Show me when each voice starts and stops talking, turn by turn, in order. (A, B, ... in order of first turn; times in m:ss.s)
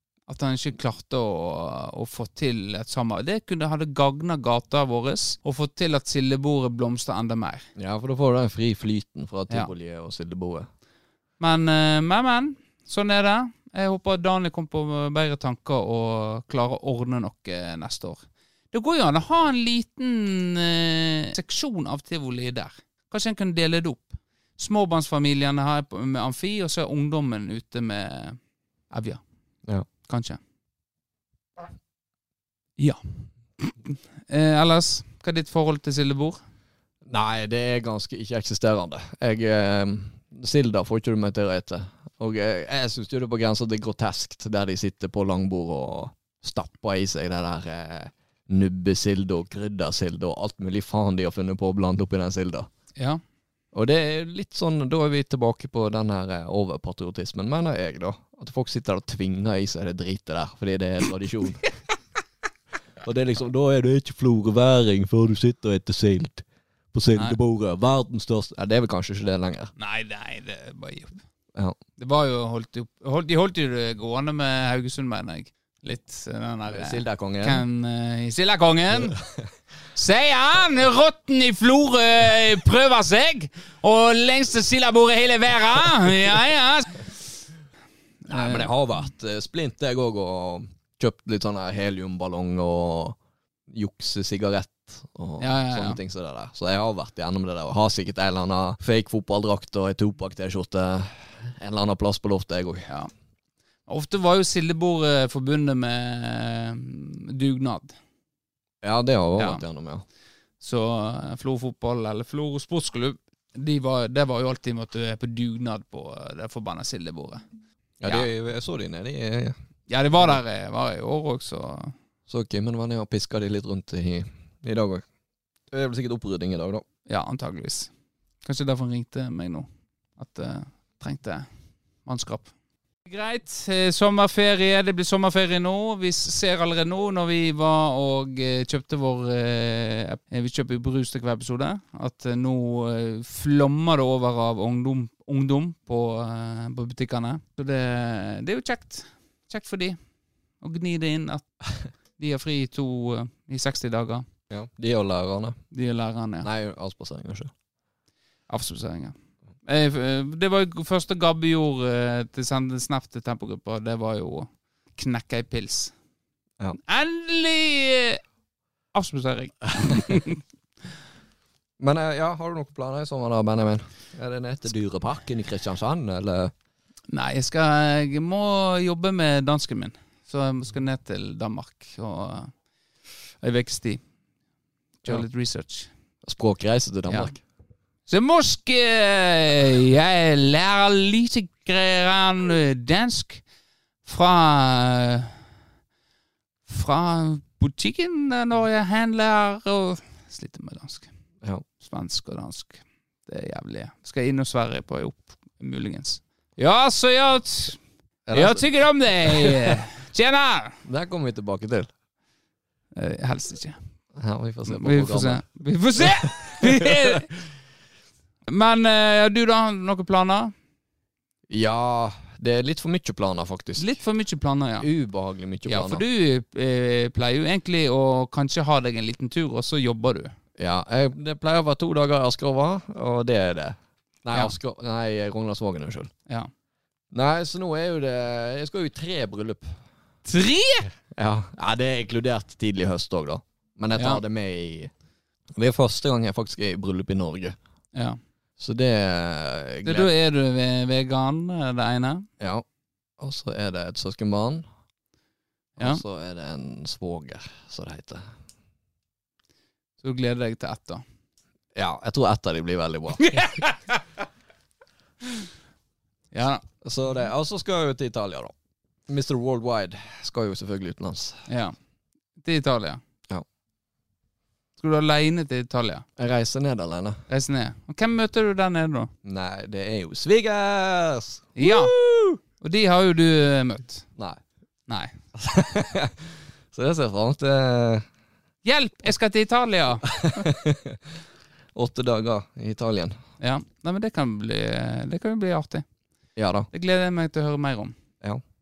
0:00.3-0:07.7 A
0:07.8-0:10.7 B
0:11.4-0:28.4 A
0:28.9-0:29.2 A
0:30.1-0:30.4 A
0:32.8-0:36.4 A
0:37.0-0:52.7 B
0:53.7-1:01.7 B
1:03.0-1:09.7 B
1:09.8-1:11.2 A
1:12.0-1:19.2 A
1:16.7-1:17.6 B
1:19.9-1:27.2 A
1:28.2-1:28.7 A
1:28.3-1:33.2 B
1:33.7-1:42.9 B
1:35.4-1:36.0 A
1:43.9-1:47.9 A
1:48.8-1:50.0 B
1:50.6-1:57.4 A
1:58.0-1:59.6 B
1:59.9-2:01.9 A
2:02.3-2:05.0 B
2:05.7-2:06.8 B
2:07.1-2:07.9 A
2:08.4-2:09.7 A
2:10.2-2:11.5 A
2:12.0-2:12.5 A
2:13.0-2:30.0 A
2:30.6-2:31.5 A
2:32.2-2:34.2 A
2:34.5-2:35.6 B
2:35.7-2:36.5 A
2:36.4-2:37.5 B
2:38.5-2:39.1 A
2:39.6-2:45.9 A
2:46.8-2:48.2 A
2:48.9-2:50.4 A
2:51.8-2:56.5 B
2:57.1-3:02.5 A
3:03.4-3:04.0 A
3:05.0-3:05.9 A
3:06.2-3:07.4 B
3:08.1-3:13.4 A
3:14.0-3:15.3 A
3:16.7-3:21.1 A
3:21.8-3:27.8 A
3:28.2-3:28.7 B
3:28.3-3:30.8 A
3:29.2-3:29.8 B
3:30.8-3:31.9 B
3:33.0-3:33.8 A
3:34.1-3:35.4 B
3:34.7-3:37.3 A
3:36.0-3:37.2 B
3:38.5-3:40.5 A
3:41.5-3:43.9 B
3:43.8-3:44.9 A
3:44.8-3:46.0 B
3:45.6-3:50.3 A
3:50.6-3:56.1 B
3:57.1-3:59.8 B
4:00.2-4:00.9 A
4:01.1-4:04.9 B
4:05.5-4:07.6 B
4:07.9-4:08.2 A
4:08.6-4:10.1 B
4:09.8-4:12.3 A
4:12.4-4:12.6 B
4:13.2-4:14.6 B
4:15.8-4:16.0 A
4:15.8-4:18.3 B
4:20.0-4:21.0 A
4:21.7-4:23.5 B
4:23.2-4:24.0 A
4:26.3-4:26.6 A
4:26.8-4:28.5 B
4:29.1-4:31.4 B
4:31.5-4:31.7 A
4:32.4-4:33.0 A
4:34.8-4:36.0 A
4:36.2-4:37.2 B
4:37.3-4:39.1 A
4:39.2-4:42.4 B
4:41.6-4:41.9 A
4:42.6-4:44.0 A
4:44.9-4:45.2 A
4:45.3-4:48.0 B
4:48.6-4:50.4 A
4:50.1-4:51.0 B
4:51.7-4:53.2 B
4:53.4-4:55.8 A
4:56.4-4:56.7 B
4:56.7-4:57.9 A